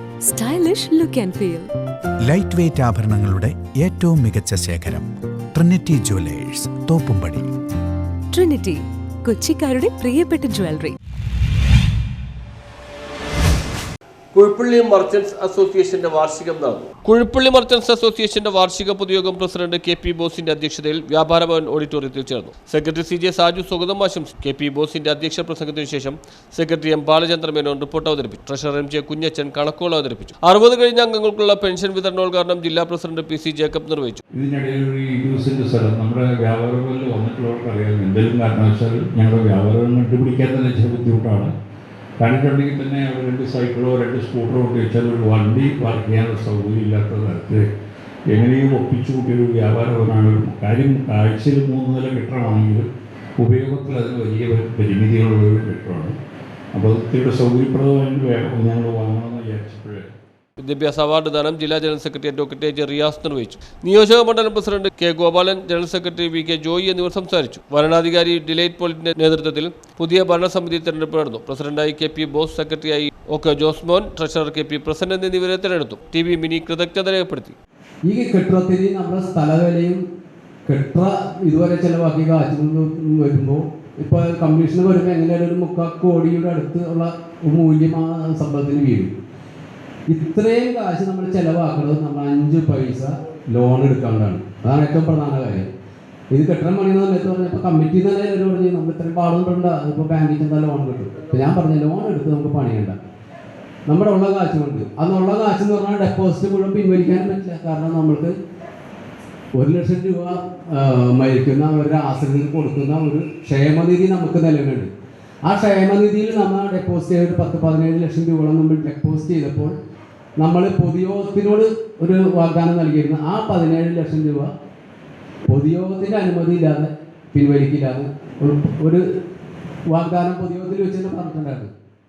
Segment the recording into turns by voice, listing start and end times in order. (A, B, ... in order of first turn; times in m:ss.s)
0:00.3-0:01.7 A
0:02.2-0:07.5 B
0:08.3-0:11.0 A
0:14.3-0:34.2 C
0:34.3-0:41.5 D
0:42.2-0:47.6 D
0:48.3-0:52.9 D
0:53.4-0:56.2 D
0:56.7-1:00.2 D
1:00.6-1:17.6 C
1:18.0-1:20.0 E
1:20.7-1:29.1 E
1:30.1-1:35.7 E
1:36.3-1:43.0 E
1:43.9-1:48.3 E
1:49.6-1:54.9 E
1:55.5-1:59.7 E
2:00.4-2:04.5 E
2:05.5-2:09.0 E
2:09.9-2:11.7 E